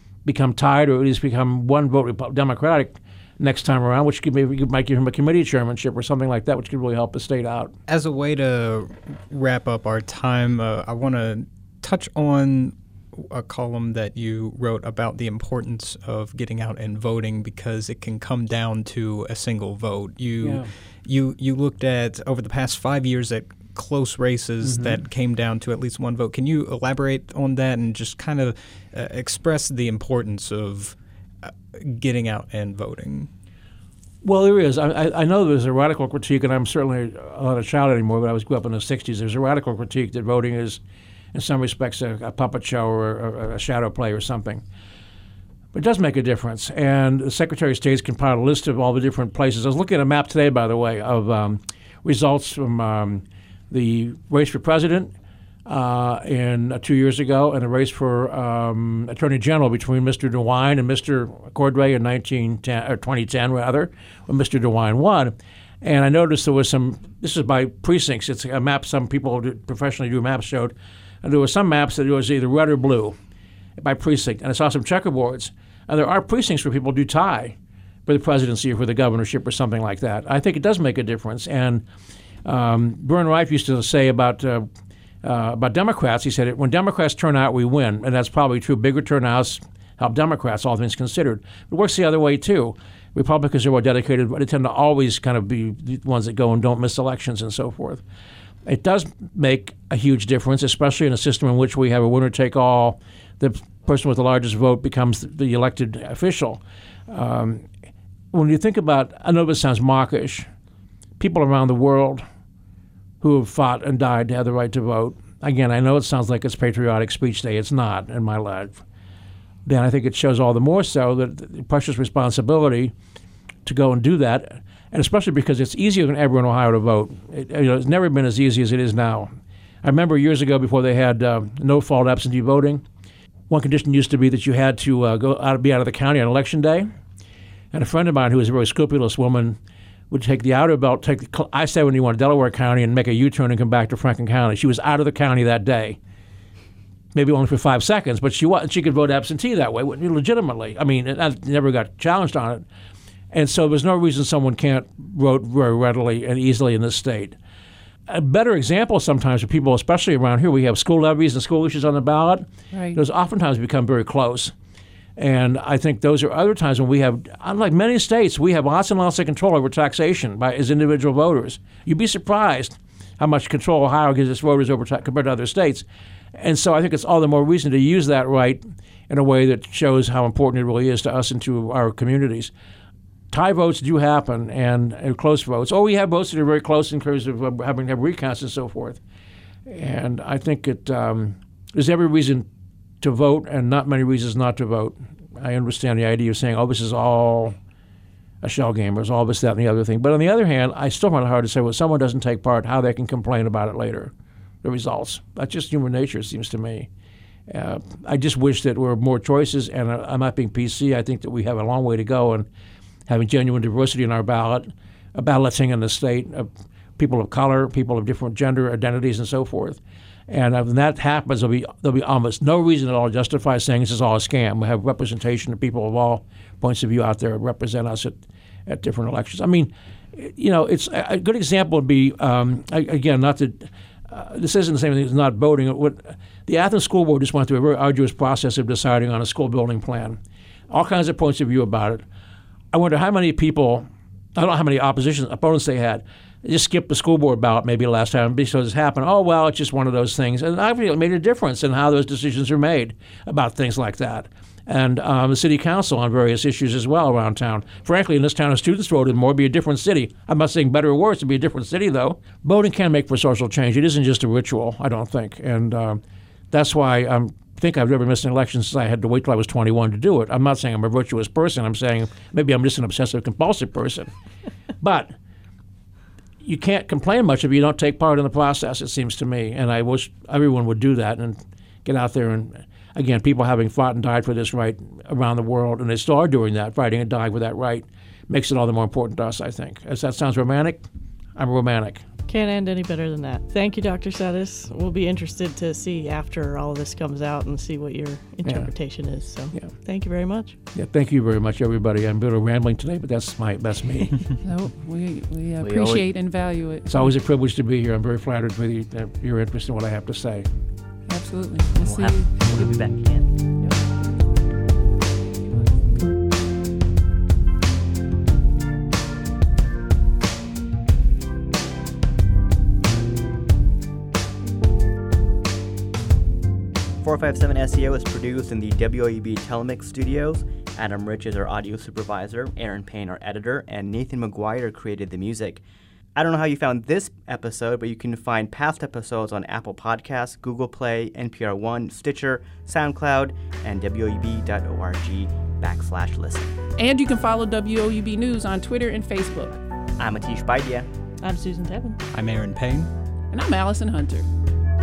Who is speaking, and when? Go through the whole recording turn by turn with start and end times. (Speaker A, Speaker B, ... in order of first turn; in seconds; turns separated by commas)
Speaker A: 0.2-7.7, Speaker B: 7.9-33.3, Speaker A: 20.4-20.7, Speaker A: 24.6-25.0, Speaker A: 34.2-40.8, Speaker A: 41.3-44.6, Speaker A: 45.7-55.1, Speaker A: 55.6-73.1, Speaker A: 73.8-81.8, Speaker A: 82.4-84.7, Speaker A: 85.2-98.0, Speaker A: 98.7-107.6, Speaker A: 108.3-110.5, Speaker A: 111.2-112.2, Speaker A: 113.2-118.8, Speaker A: 119.7-122.9, Speaker A: 123.6-129.3, Speaker A: 129.8-132.8, Speaker A: 133.5-136.9, Speaker A: 137.7-139.6, Speaker A: 140.1-146.0, Speaker A: 147.1-152.6, Speaker A: 153.3-157.3, Speaker A: 158.1-164.5, Speaker C: 162.7-163.0, Speaker A: 165.2-182.5, Speaker A: 183.3-189.0, Speaker A: 189.7-192.4, Speaker A: 193.0-197.5, Speaker A: 198.4-204.1, Speaker A: 204.6-206.9, Speaker A: 207.5-212.5, Speaker A: 213.1-240.2, Speaker A: 240.7-242.0, Speaker A: 242.7-274.1, Speaker A: 274.8-275.1, Speaker A: 276.4-292.0, Speaker D: 292.3-300.6, Speaker A: 298.4-298.7, Speaker A: 300.7-304.2, Speaker C: 304.4-307.1, Speaker E: 305.6-306.1, Speaker A: 306.9-310.5, Speaker C: 311.1-312.3, Speaker E: 311.8-313.4, Speaker C: 313.6-313.9, Speaker E: 327.0-335.6, Speaker E: 336.1-346.5, Speaker C: 346.8-349.6, Speaker E: 350.0-350.9, Speaker D: 351.2-352.0, Speaker B: 352.1-352.9, Speaker C: 353.3-354.3